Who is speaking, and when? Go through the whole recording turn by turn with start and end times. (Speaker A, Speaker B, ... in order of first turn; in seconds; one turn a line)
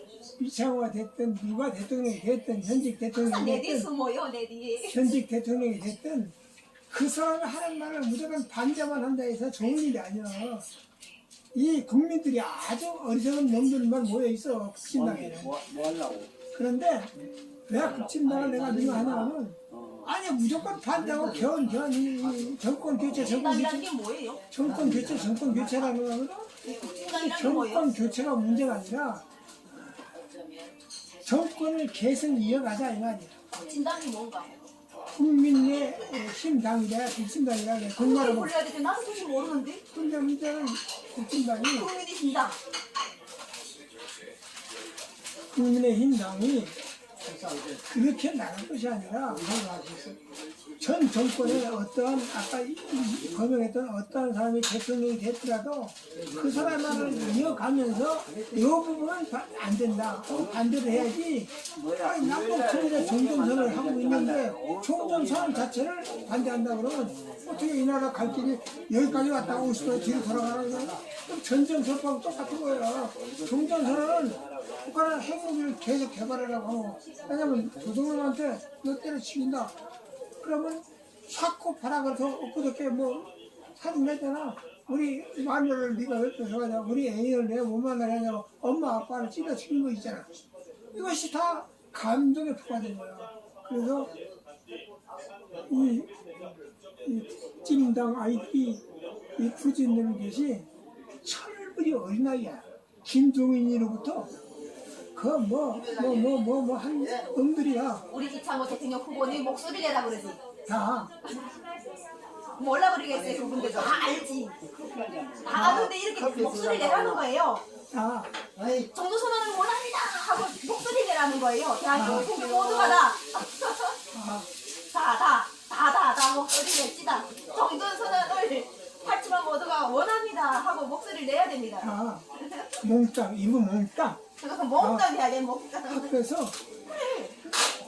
Speaker A: 0.4-3.9
Speaker B: 3.1-5.2
Speaker A: 4.9-6.3
Speaker A: 6.9-10.7
Speaker A: 11.5-15.6
Speaker C: 14.9-16.3
Speaker A: 16.5-17.1
Speaker A: 17.7-23.9
Speaker C: 17.7-20.1
Speaker C: 20.8-21.6
Speaker C: 22.3-23.2
Speaker B: 23.1-24.4
Speaker A: 24.5-29.2
Speaker C: 24.6-25.9
Speaker B: 26.6-27.9
Speaker A: 31.2-33.4
Speaker B: 33.5-34.7
Speaker A: 35.1-38.5
Speaker B: 38.0-39.8
Speaker A: 39.9-41.9
Speaker B: 41.7-42.6
Speaker A: 45.5-46.7
Speaker C: 47.2-47.8
Speaker A: 47.9-49.5
Speaker C: 49.3-50.2
Speaker A: 50.8-79.7
Speaker C: 56.2-58.6
Speaker C: 61.8-65.6
Speaker C: 69.1-71.0
Speaker C: 73.2-74.3
Speaker A: 80.4-90.3
Speaker A: 90.9-94.1
Speaker A: 95.7-96.1
Speaker A: 97.0-98.8
Speaker A: 99.4-100.7
Speaker A: 101.2-104.3
Speaker A: 105.1-108.0
Speaker B: 108.1-110.4
Speaker A: 110.7-111.1
Speaker B: 112.6-114.6
Speaker C: 113.2-117.2
Speaker B: 115.4-117.6
Speaker A: 115.5-115.9
Speaker A: 117.9-118.3
Speaker C: 118.5-118.9
Speaker B: 118.9-124.0
Speaker A: 121.9-122.3
Speaker A: 124.1-124.5
Speaker B: 124.9-132.7
Speaker A: 131.8-132.2
Speaker A: 132.8-134.2
Speaker B: 134.4-136.1
Speaker A: 134.8-135.1
Speaker A: 135.9-136.6
Speaker B: 136.9-137.4